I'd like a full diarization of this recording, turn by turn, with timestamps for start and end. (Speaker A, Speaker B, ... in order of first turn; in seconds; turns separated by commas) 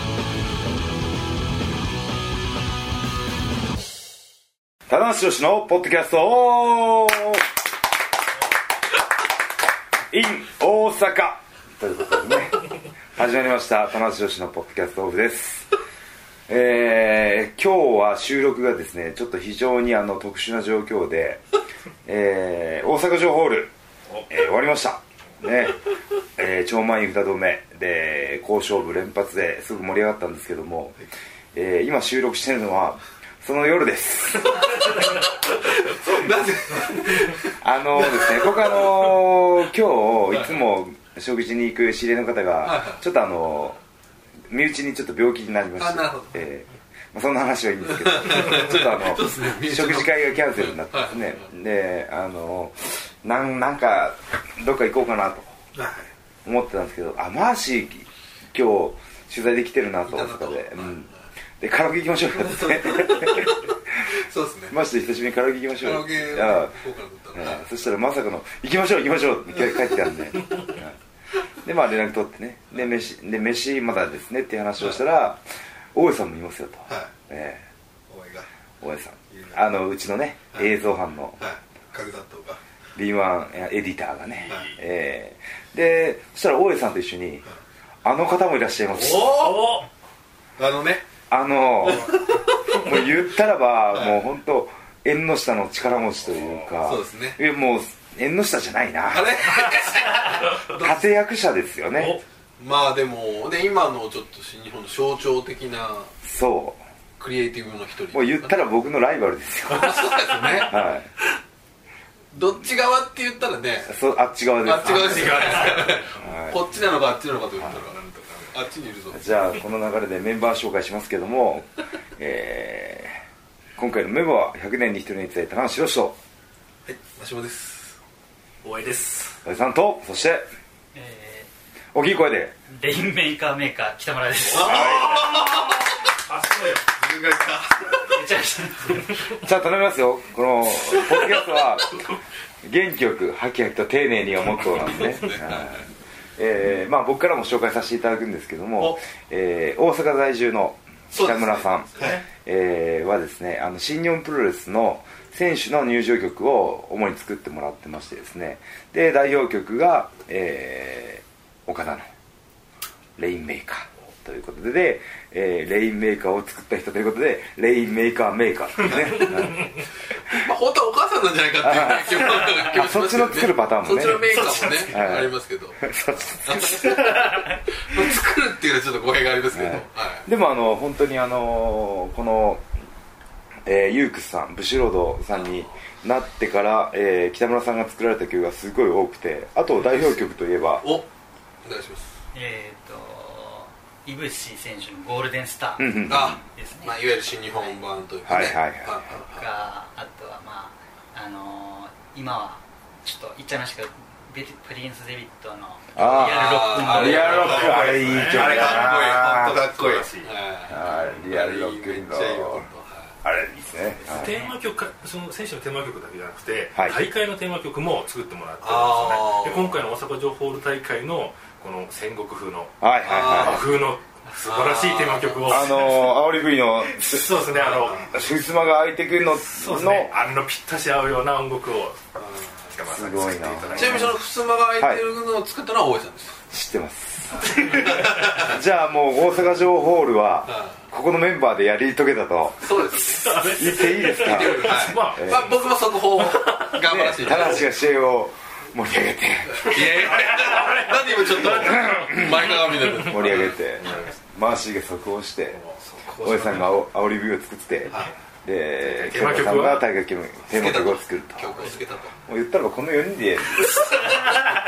Speaker A: 4.9-7.5, Speaker A: 10.1-15.7, Speaker A: 16.5-21.4, Speaker A: 22.1-23.7, Speaker A: 24.3-30.9, Speaker A: 31.5-34.9, Speaker B: 34.5-39.1, Speaker A: 37.6-43.8, Speaker B: 40.3-40.6, Speaker B: 42.6-43.0, Speaker A: 44.5-55.6, Speaker B: 45.8-46.3, Speaker B: 47.9-51.5, Speaker B: 55.7-56.1, Speaker A: 56.4-63.7, Speaker B: 60.0-61.1, Speaker B: 62.3-64.7, Speaker A: 64.7-66.8, Speaker B: 65.8-67.7, Speaker A: 67.3-71.0, Speaker A: 71.6-77.6, Speaker B: 78.1-78.5, Speaker A: 78.8-81.4, Speaker B: 79.3-79.6, Speaker B: 81.4-82.6, Speaker A: 83.0-87.4, Speaker B: 84.5-84.7, Speaker A: 88.0-89.4, Speaker B: 88.9-89.9, Speaker C: 89.3-89.8, Speaker B: 90.6-91.0, Speaker A: 91.3-99.4, Speaker B: 91.9-92.9, Speaker B: 96.8-97.4, Speaker B: 99.1-101.0, Speaker A: 100.7-102.2, Speaker C: 101.9-102.2, Speaker B: 102.6-106.1, Speaker A: 106.2-106.8, Speaker B: 107.2-108.7, Speaker A: 108.1-110.0, Speaker B: 109.7-110.8, Speaker C: 110.0-110.6, Speaker A: 110.6-111.1, Speaker B: 112.3-113.9, Speaker A: 113.8-116.6, Speaker B: 114.6-119.3, Speaker C: 114.8-116.4, Speaker C: 117.7-118.6, Speaker A: 119.1-123.2, Speaker A: 123.8-126.2, Speaker B: 126.8-128.0, Speaker C: 128.6-129.4, Speaker A: 129.4-130.4, Speaker D: 130.9-131.5, Speaker A: 131.9-132.6, Speaker D: 132.7-135.0, Speaker B: 134.5-135.9, Speaker A: 134.6-135.3, Speaker C: 136.2-136.8, Speaker B: 136.9-138.2, Speaker D: 138.1-139.3, Speaker A: 139.4-142.1, Speaker B: 140.8-141.4, Speaker A: 142.6-162.1, Speaker B: 144.5-145.8, Speaker B: 151.1-152.2, Speaker A: 163.2-169.6, Speaker B: 168.8-169.7, Speaker B: 170.2-180.3, Speaker A: 171.6-176.8, Speaker D: 174.1-175.0, Speaker D: 176.8-177.6, Speaker A: 179.5-182.7, Speaker A: 183.6-190.8, Speaker B: 185.3-185.8, Speaker B: 189.8-190.2, Speaker B: 190.8-191.1, Speaker B: 191.6-192.1, Speaker D: 192.3-197.8, Speaker A: 195.8-196.4, Speaker B: 196.1-199.5, Speaker A: 198.2-199.0, Speaker D: 199.1-207.8, Speaker A: 205.9-209.6, Speaker B: 206.0-213.1, Speaker C: 207.1-210.4, Speaker A: 210.7-212.7, Speaker A: 213.2-214.3, Speaker D: 214.0-214.6, Speaker C: 214.1-226.0, Speaker A: 216.7-217.0, Speaker B: 218.6-219.8, Speaker A: 222.8-223.7, Speaker B: 223.0-223.8, Speaker B: 224.4-225.9, Speaker A: 225.4-227.4, Speaker C: 226.9-228.4, Speaker B: 227.5-228.1, Speaker A: 228.1-230.1, Speaker C: 229.3-234.2, Speaker B: 232.2-232.7, Speaker A: 232.9-234.2, Speaker B: 233.8-236.4, Speaker A: 234.8-235.0, Speaker A: 236.5-245.6, Speaker B: 237.5-238.6, Speaker C: 237.7-238.1, Speaker B: 240.5-240.8, Speaker B: 242.6-247.7, Speaker C: 242.9-247.5, Speaker A: 246.8-249.8, Speaker B: 249.5-253.9, Speaker C: 249.7-254.1, Speaker A: 251.5-255.6, Speaker C: 255.5-255.8, Speaker B: 255.8-256.7, Speaker A: 256.2-261.7, Speaker C: 258.8-259.9, Speaker B: 260.5-262.1, Speaker A: 262.2-264.4